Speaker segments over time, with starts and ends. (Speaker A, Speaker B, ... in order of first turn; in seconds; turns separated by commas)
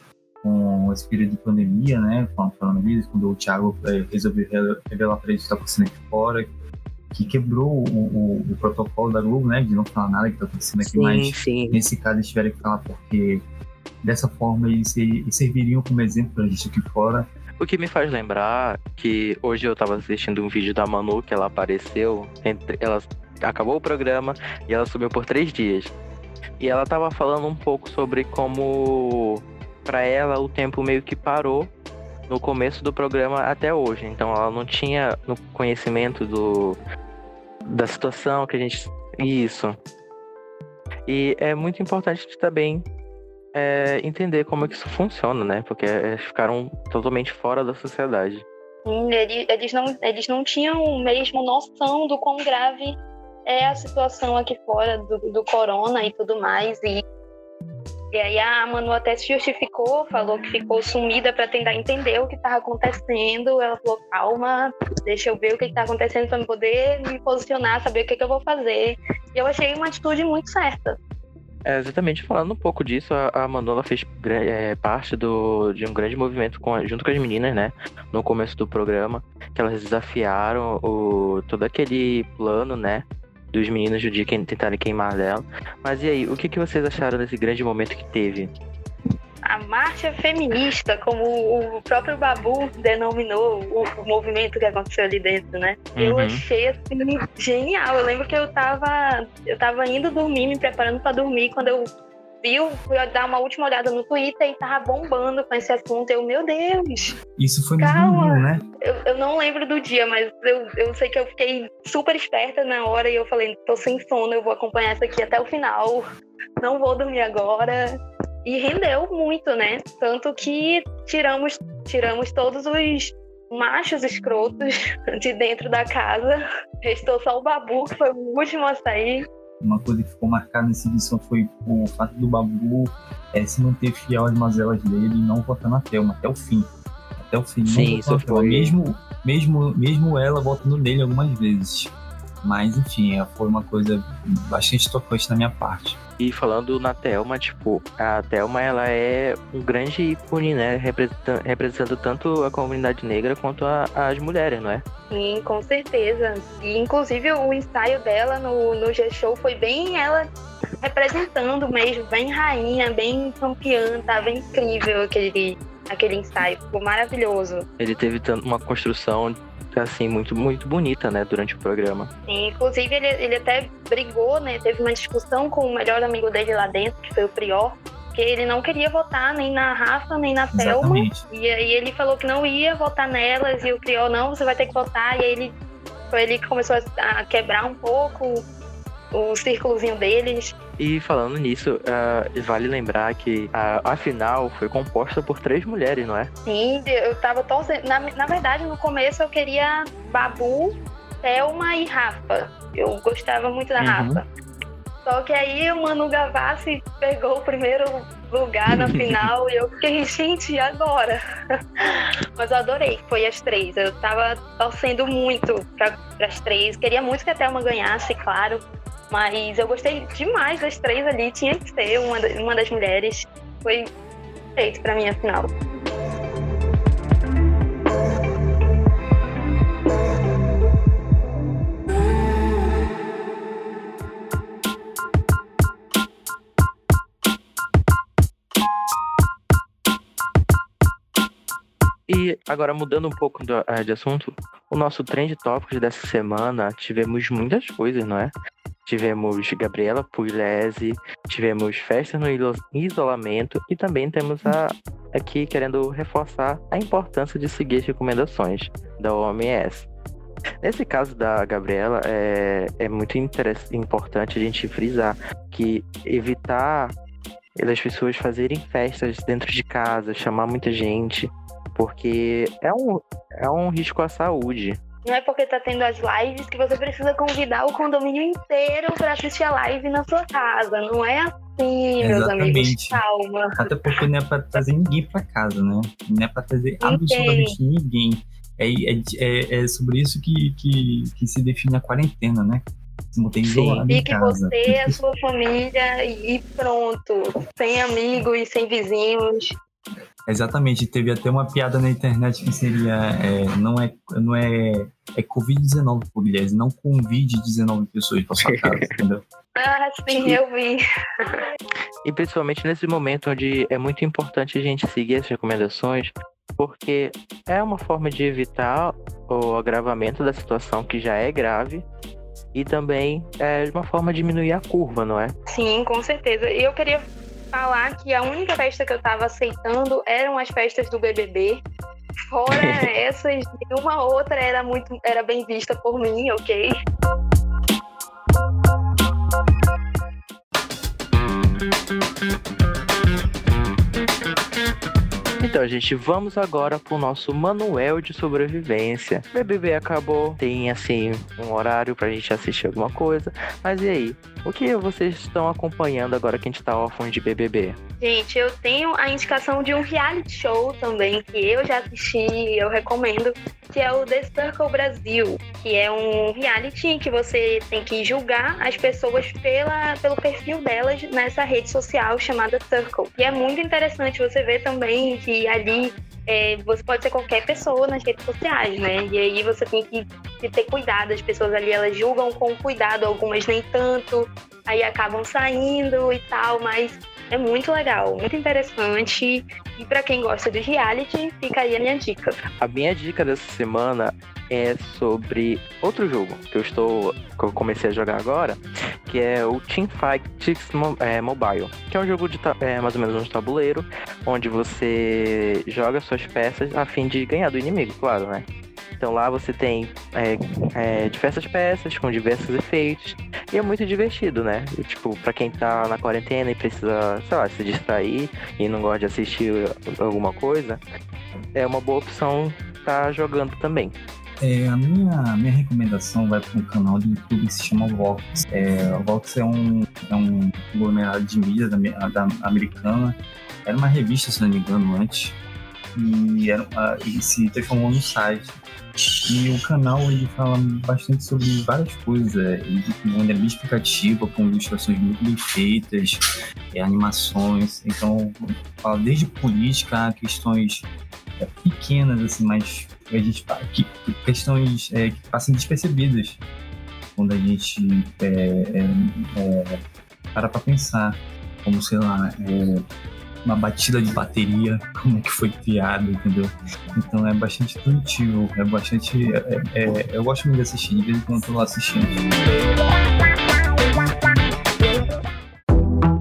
Speaker A: 0.4-6.5, Speaker A: 7.1-13.4, Speaker B: 10.8-11.8, Speaker A: 14.0-17.3, Speaker B: 17.6-25.9, Speaker B: 26.6-31.7, Speaker B: 32.3-36.8, Speaker B: 37.7-39.8, Speaker B: 41.1-42.9, Speaker B: 43.5-48.5, Speaker C: 48.9-57.0, Speaker C: 58.1-71.0, Speaker B: 71.7-88.5, Speaker C: 89.5-101.9, Speaker B: 96.0-96.4, Speaker C: 102.4-107.1, Speaker A: 107.4-108.6, Speaker C: 107.8-116.0, Speaker C: 116.6-129.2, Speaker A: 129.6-146.0, Speaker B: 137.7-138.8, Speaker B: 146.2-154.8, Speaker C: 155.1-160.3, Speaker C: 160.8-167.7, Speaker B: 167.8-172.1, Speaker C: 172.3-185.6, Speaker A: 180.5-181.3, Speaker C: 186.1-188.5, Speaker C: 189.1-190.5, Speaker B: 190.8-196.3, Speaker C: 196.4-204.2, Speaker B: 203.8-204.2, Speaker C: 205.1-211.2, Speaker B: 208.7-209.3, Speaker C: 211.9-223.9, Speaker C: 224.6-225.5, Speaker B: 242.1-248.3, Speaker B: 248.8-259.9, Speaker B: 260.6-266.9, Speaker B: 267.6-274.8, Speaker C: 275.1-283.7, Speaker A: 282.0-283.0, Speaker A: 283.6-295.0, Speaker C: 286.8-287.6, Speaker B: 293.4-293.9, Speaker C: 293.9-299.5, Speaker A: 300.3-309.2, Speaker B: 308.4-308.9, Speaker C: 309.6-310.8, Speaker B: 310.1-310.4, Speaker B: 312.1-321.9, Speaker B: 322.5-325.4, Speaker C: 325.5-331.6, Speaker C: 332.3-336.7, Speaker B: 332.5-332.9, Speaker B: 345.4-357.8, Speaker C: 358.0-392.4, Speaker B: 392.6-408.5, Speaker B: 409.0-420.8, Speaker B: 421.5-423.9, Speaker A: 424.4-435.4, Speaker A: 435.9-438.6, Speaker A: 439.3-446.2, Speaker A: 446.7-450.9, Speaker A: 451.4-456.4, Speaker A: 457.2-459.8, Speaker A: 460.3-462.9, Speaker A: 463.4-472.2